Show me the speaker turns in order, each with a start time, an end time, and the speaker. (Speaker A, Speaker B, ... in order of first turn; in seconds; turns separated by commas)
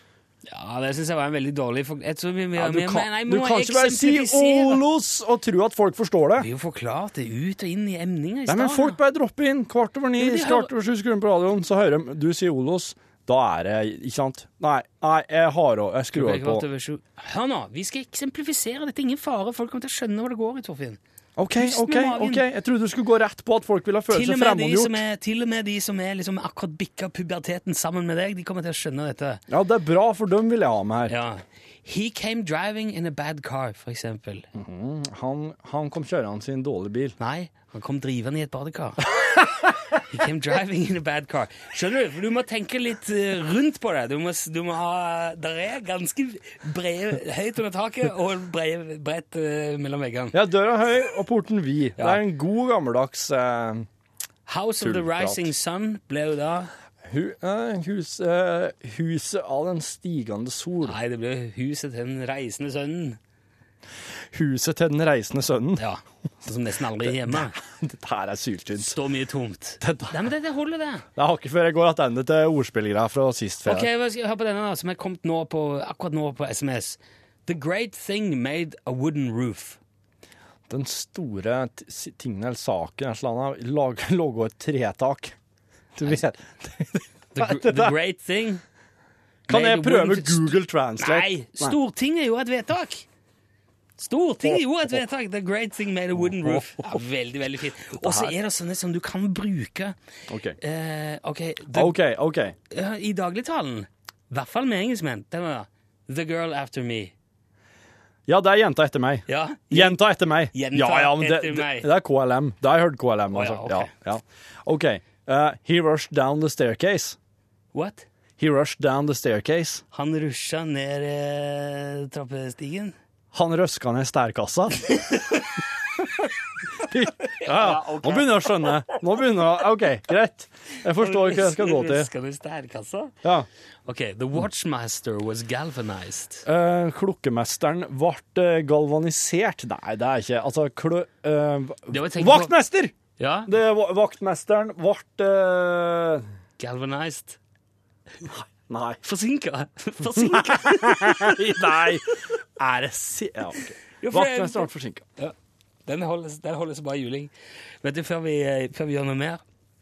Speaker A: 0.5-4.8, Speaker B: 2.6-6.5, Speaker A: 6.4-9.0, Speaker B: 8.5-16.6, Speaker A: 10.2-10.7, Speaker A: 16.1-21.0, Speaker B: 21.4-25.0, Speaker A: 21.6-22.4, Speaker A: 24.1-29.4, Speaker B: 29.5-31.1, Speaker A: 31.1-34.5, Speaker B: 34.5-37.2, Speaker A: 37.2-39.4, Speaker A: 40.1-50.4, Speaker B: 50.3-53.9, Speaker A: 54.5-56.7, Speaker B: 54.8-55.5, Speaker B: 57.1-61.0, Speaker A: 60.9-63.2, Speaker B: 64.3-65.8, Speaker A: 65.8-67.5, Speaker B: 67.0-69.0, Speaker A: 68.8-71.0, Speaker B: 69.8-70.2, Speaker B: 71.2-73.9, Speaker A: 73.6-79.8, Speaker B: 80.7-85.3, Speaker B: 86.0-88.0, Speaker A: 87.4-88.6, Speaker A: 89.5-93.0, Speaker B: 89.5-91.8, Speaker A: 94.0-100.0, Speaker B: 94.4-95.0, Speaker B: 96.2-97.0, Speaker B: 98.0-98.3, Speaker B: 100.3-100.6, Speaker A: 100.6-102.0, Speaker B: 101.7-102.5, Speaker A: 102.7-107.1, Speaker B: 108.3-117.2, Speaker A: 109.3-111.9, Speaker A: 113.3-113.9, Speaker A: 117.7-118.0, Speaker B: 118.4-119.8, Speaker A: 119.9-123.0, Speaker B: 123.3-125.1, Speaker B: 126.8-132.1, Speaker A: 127.4-128.7, Speaker A: 131.0-133.1, Speaker A: 133.9-136.4, Speaker B: 136.4-142.9, Speaker A: 141.9-142.5, Speaker A: 143.2-143.5, Speaker B: 143.5-146.2, Speaker A: 146.6-147.4, Speaker B: 148.3-149.0, Speaker A: 149.0-151.6, Speaker B: 150.2-155.0, Speaker A: 154.0-155.3, Speaker A: 155.9-157.3, Speaker A: 157.8-159.4